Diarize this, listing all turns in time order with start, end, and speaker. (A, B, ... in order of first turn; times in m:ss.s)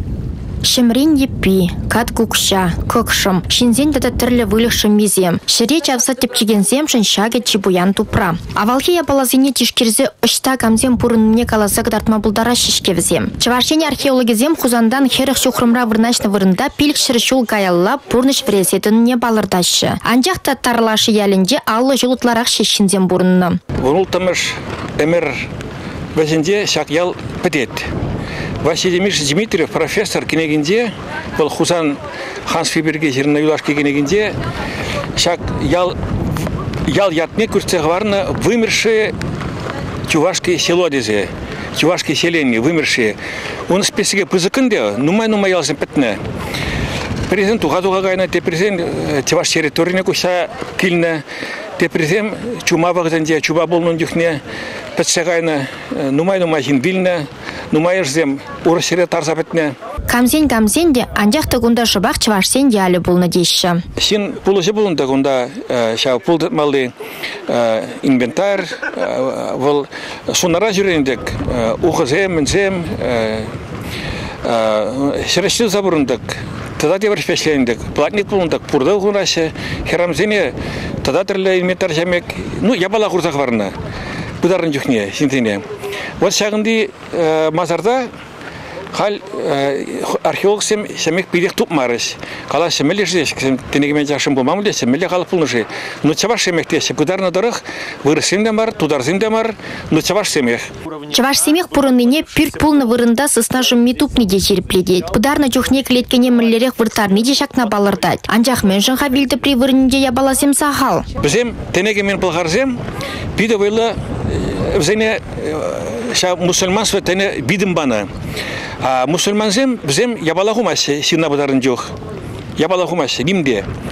0:00.6-0:23.6 A
0:23.8-0:25.5 B
0:26.1-0:27.9 B
0:28.6-0:34.4 B
0:35.2-0:39.2 B
0:40.1-0:43.2 B
0:43.7-0:46.2 B
0:47.3-0:51.2 B
0:51.8-0:54.4 B
0:55.0-0:59.8 B
1:00.1-1:03.8 A
1:04.0-1:06.9 B
1:07.5-1:13.5 B
1:14.4-1:23.7 B
1:24.4-1:25.6 B
1:26.2-1:28.1 B
1:28.9-1:40.7 B
1:41.1-1:51.1 A
1:51.2-1:52.8 B
1:53.4-1:58.1 B
1:58.8-2:01.9 B
2:02.6-2:03.7 B